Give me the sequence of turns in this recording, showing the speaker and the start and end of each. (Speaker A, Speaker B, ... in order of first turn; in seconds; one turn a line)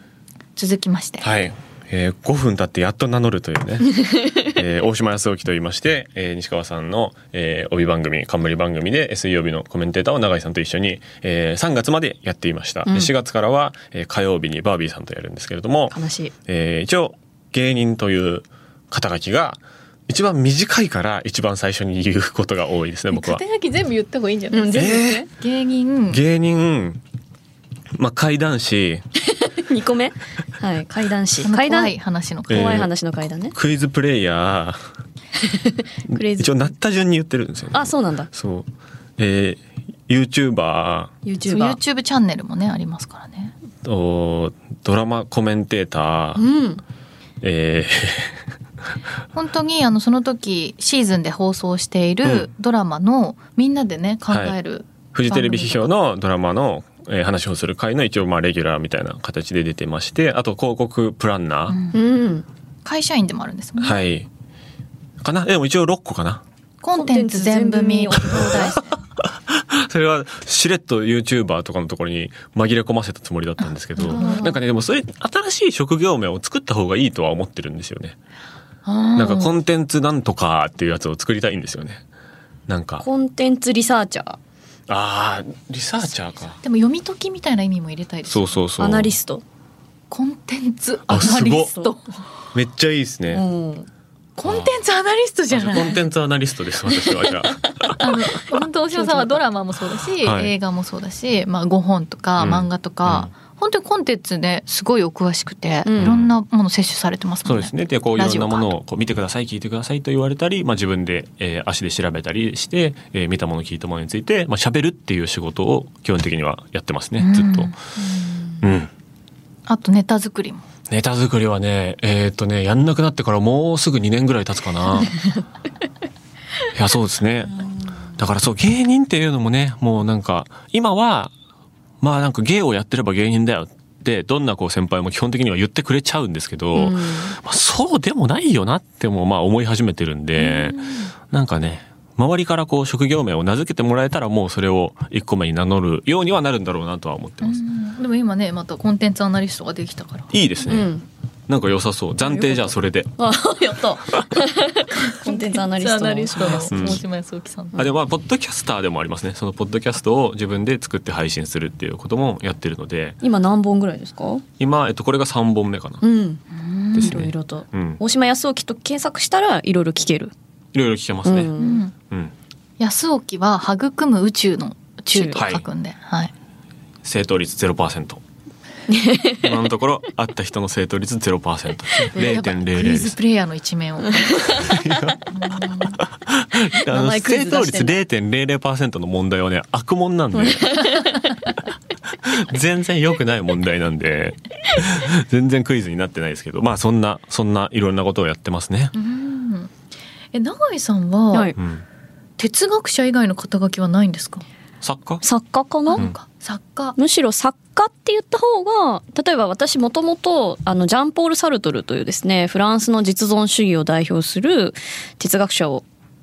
Speaker A: 0.6-1.3
Speaker B: 1.2-23.4
Speaker C: 12.9-13.1
Speaker C: 15.9-16.3
Speaker A: 23.1-26.2
Speaker C: 24.5-25.3
Speaker B: 24.7-25.3
Speaker B: 26.1-27.0
Speaker B: 28.0-29.1
Speaker C: 29.4-31.9
Speaker A: 31.4-32.9
Speaker B: 32.5-32.9
Speaker C: 32.5-33.5
Speaker B: 33.5-34.8
Speaker C: 36.0-36.7
Speaker B: 36.1-41.1
Speaker C: 37.7-38.3
Speaker C: 41.2-41.8
Speaker A: 41.5-43.5
Speaker B: 43.9-46.4
Speaker C: 46.4-46.8
Speaker B: 47.4-48.4
Speaker A: 49.3-55.9
Speaker B: 52.2-52.5
Speaker B: 54.3-54.6
Speaker B: 55.1-61.8
Speaker A: 61.7-62.0
Speaker C: 61.9-62.5
Speaker A: 62.9-64.0
Speaker B: 63.8-64.3
Speaker B: 65.2-66.4
Speaker A: 66.8-68.8
Speaker C: 66.9-68.9
Speaker B: 69.2-78.2
Speaker A: 74.0-74.4
Speaker C: 74.0-74.6
Speaker A: 78.8-79.5
Speaker B: 79.2-82.0
Speaker B: 82.7-83.1
Speaker C: 83.0-84.4
Speaker B: 84.9-86.6
Speaker A: 86.6-88.6
Speaker B: 88.3-89.1
Speaker C: 88.8-89.4
Speaker A: 90.1-92.0
Speaker B: 91.1-91.7
Speaker C: 91.1-92.0
Speaker B: 92.5-93.5
Speaker C: 93.3-93.9
Speaker A: 94.4-96.0
Speaker B: 94.5-94.7
Speaker B: 95.5-98.2
Speaker A: 98.0-108.7
Speaker C: 98.9-99.4
Speaker B: 100.2-100.5
Speaker B: 102.4-103.3
Speaker C: 105.8-106.2
Speaker B: 106.0-106.3
Speaker B: 107.5-117.8
Speaker A: 117.2-117.8
Speaker B: 118.6-118.9
Speaker A: 119.7-120.6
Speaker B: 120.9-125.1
Speaker B: 126.8-127.6
Speaker B: 128.2-131.3
Speaker B: 132.0-147.6
Speaker C: 136.7-137.4
Speaker A: 140.4-141.1
Speaker A: 147.4-150.3
Speaker B: 150.3-150.9
Speaker C: 150.7-151.1
Speaker B: 151.5-153.2
Speaker C: 152.2-157.0
Speaker A: 155.2-157.8
Speaker B: 156.7-157.0
Speaker B: 157.8-163.2
Speaker C: 163.2-164.4
Speaker B: 164.6-166.0
Speaker C: 166.0-166.4
Speaker A: 166.5-167.2
Speaker C: 166.9-170.3
Speaker B: 167.0-168.0
Speaker B: 170.7-171.5
Speaker C: 171.2-171.8
Speaker A: 171.6-171.9
Speaker A: 172.8-176.3
Speaker C: 175.1-175.4
Speaker B: 175.4-175.7
Speaker B: 177.0-178.2
Speaker C: 178.9-179.6
Speaker B: 179.4-183.2
Speaker A: 182.1-184.7
Speaker B: 184.5-190.8
Speaker A: 185.3-186.0
Speaker C: 186.8-188.0
Speaker C: 190.3-191.3
Speaker B: 192.2-198.9
Speaker A: 198.9-199.7
Speaker A: 200.3-201.5
Speaker B: 201.6-201.8
Speaker A: 202.4-204.4
Speaker B: 204.8-205.2
Speaker C: 205.2-206.1
Speaker A: 205.9-207.0
Speaker C: 207.0-215.8